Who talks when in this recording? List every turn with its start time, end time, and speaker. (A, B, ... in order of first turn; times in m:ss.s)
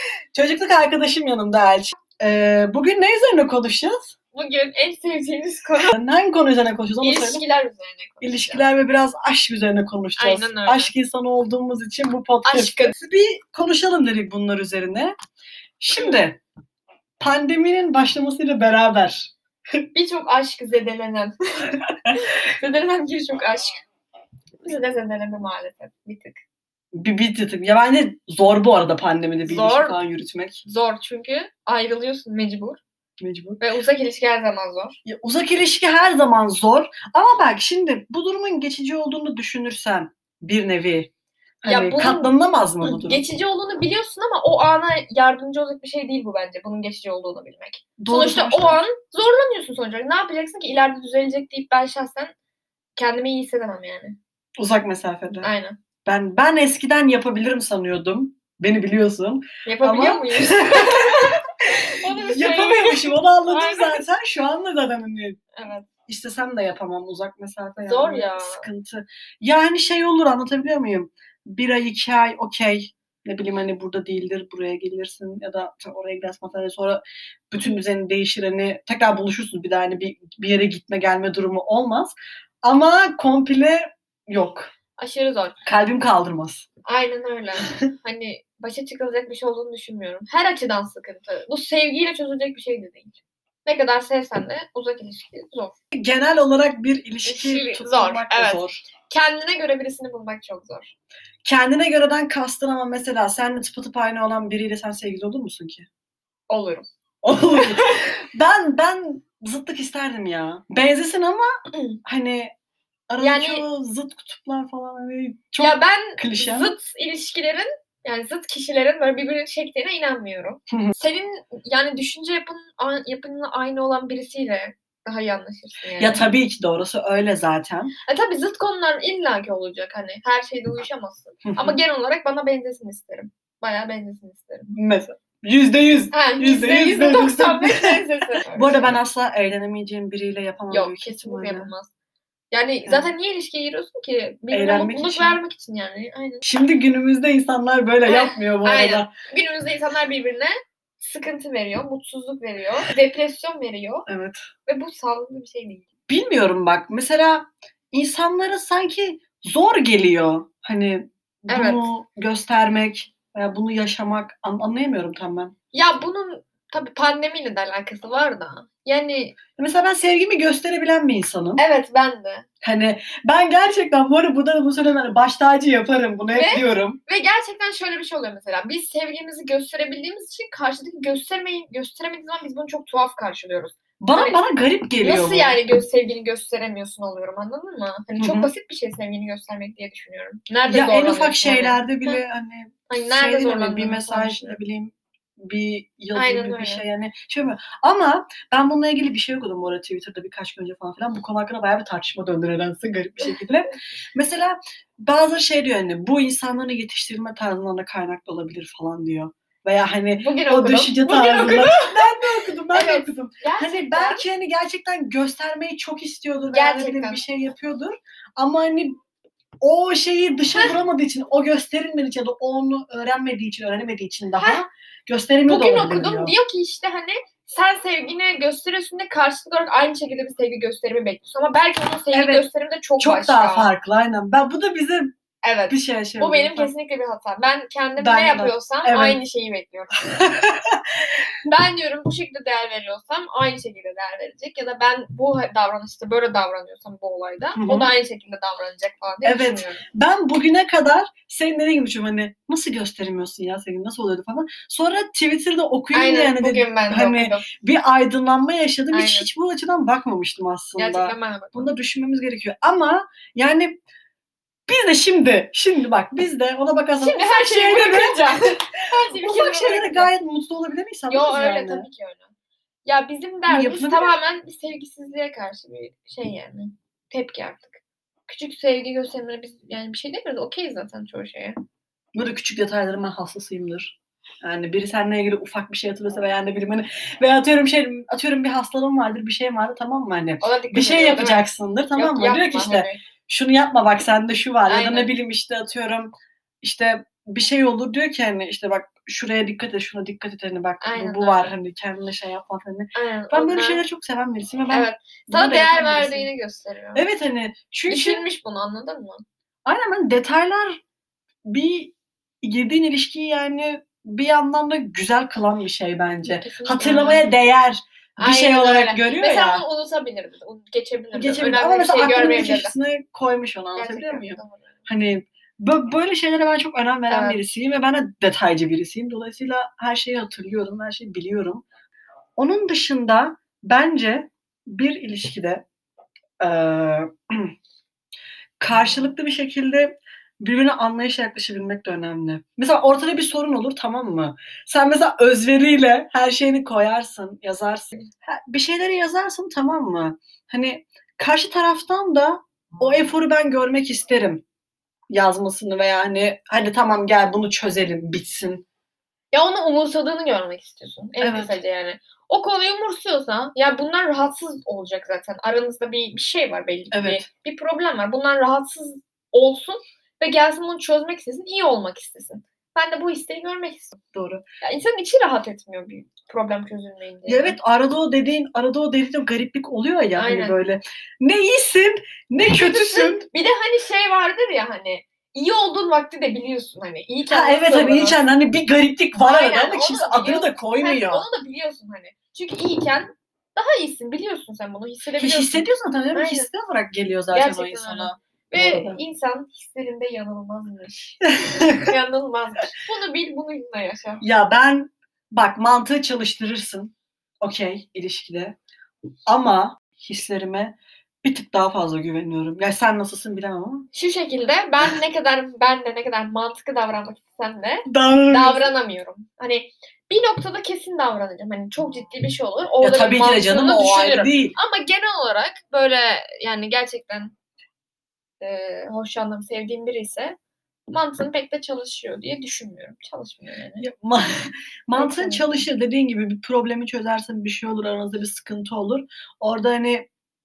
0:00.3-0:04.1 A
0:04.3-0:05.9 B
0:05.8-0:07.4 A
0:07.0-0:08.6 B
0:08.2-0:15.1 A
0:10.2-0:10.9 B
0:12.4-0:12.9 B
0:15.8-0:16.4 A
0:17.2-0:19.3 A
0:19.9-0:23.8 B
0:24.6-0:26.4 B
0:26.9-0:30.6 A
0:29.4-0:30.0 B
0:30.6-0:32.8 B
0:33.2-0:33.6 A
0:33.6-0:35.0 B
0:35.0-0:41.1 A
0:41.6-0:43.2 A
0:41.6-0:52.3 B
0:48.0-0:48.8 A
0:53.0-0:54.2 B
0:54.6-0:55.5 A
0:55.4-0:55.8 B
0:56.0-1:01.4 A
0:59.6-1:01.4 B
1:02.0-1:04.0 B
1:02.1-1:05.4 A
1:05.5-1:05.9 B
1:06.1-1:24.7 A
1:07.8-1:08.6 B
1:25.0-1:25.6 B
1:25.6-1:26.6 A
1:26.8-1:35.8 B
1:35.9-1:38.8 A
1:37.2-1:40.9 B
1:41.4-1:45.9 A
1:46.5-1:46.9 B
1:47.2-1:51.5 A
1:47.6-1:48.0 B
1:51.7-1:52.0 B
1:52.0-1:52.5 A
1:53.1-1:56.7 A
1:53.2-1:53.6 B
1:55.6-2:06.2 B
2:06.0-2:07.9 A
2:08.1-2:14.7 B
2:11.4-2:11.8 A
2:14.7-2:17.9 A
2:16.1-2:19.0 B
2:18.5-2:21.7 A
2:20.7-2:21.9 B
2:22.5-2:26.4 B
2:22.8-2:23.1 A
2:24.5-2:25.4 A
2:26.4-2:29.1 A
2:28.0-2:34.1 B
2:34.1-2:34.4 A
2:34.7-2:35.9 B
2:36.1-2:45.5 A
2:41.5-2:41.9 B
2:45.7-2:49.4 B
2:49.6-2:51.6 A
2:51.6-2:52.4 B
2:52.6-2:57.0 A
2:56.3-3:04.4 B
3:04.0-3:05.6 A
3:05.0-3:12.2 B
3:08.2-3:08.5 A
3:10.7-3:39.0 A
3:12.9-3:14.6 B
3:16.1-3:16.8 B
3:30.1-3:32.1 B
3:32.7-3:34.2 B
3:36.5-3:37.2 B
3:39.6-3:46.3 A
3:44.4-3:44.6 B
3:45.5-3:53.7 B
3:52.1-3:52.5 A
3:53.0-3:55.1 A
3:55.4-4:00.1 B
3:55.7-3:56.7 A
3:58.0-3:59.2 A
4:00.1-4:01.1 A
4:01.4-4:09.8 B
4:07.5-4:07.9 A
4:09.2-4:23.8 A
4:15.9-4:17.5 B
4:18.9-4:19.3 B
4:20.8-4:21.7 B
4:24.7-4:28.6 A
4:27.0-4:30.1 B
4:29.1-4:31.9 A
4:31.1-4:32.3 B
4:32.8-4:41.6 B
4:33.5-4:34.2 A
4:42.1-5:06.3 A
4:50.4-4:53.0 B
4:54.7-4:55.1 B
5:00.8-5:01.5 B
5:02.9-5:03.8 B
5:04.7-5:07.0 B
5:06.9-5:08.2 A
5:07.9-5:09.2 B
5:09.6-5:10.8 A
5:11.4-5:19.6 A
5:16.2-5:17.2 B
5:18.2-5:22.7 B
5:21.1-5:31.6 A
5:23.8-5:24.7 B
5:27.1-5:27.4 B
5:32.4-5:35.6 A
5:36.4-5:37.5 A
5:38.6-5:54.4 A
5:55.1-5:58.6 A
5:59.3-6:14.0 B
6:01.2-6:01.6 A
6:06.9-6:07.2 A
6:14.1-6:14.4 A
6:14.6-6:17.6 B
6:17.3-6:23.3 A
6:20.2-6:20.6 B
6:22.4-6:28.2 B
6:27.2-6:31.3 A
6:29.2-6:36.5 B
6:35.2-6:39.0 A
6:37.3-6:41.3 B
6:41.3-6:41.9 A
6:41.8-6:44.2 B
6:44.2-6:48.6 A
6:49.3-6:53.9 A
6:53.9-7:07.4 B
6:57.9-6:58.7 A
7:02.8-7:04.6 A
7:08.4-7:10.4 B
7:10.9-7:13.9 B
7:13.8-7:14.3 A
7:14.9-7:20.1 A
7:14.9-7:15.7 B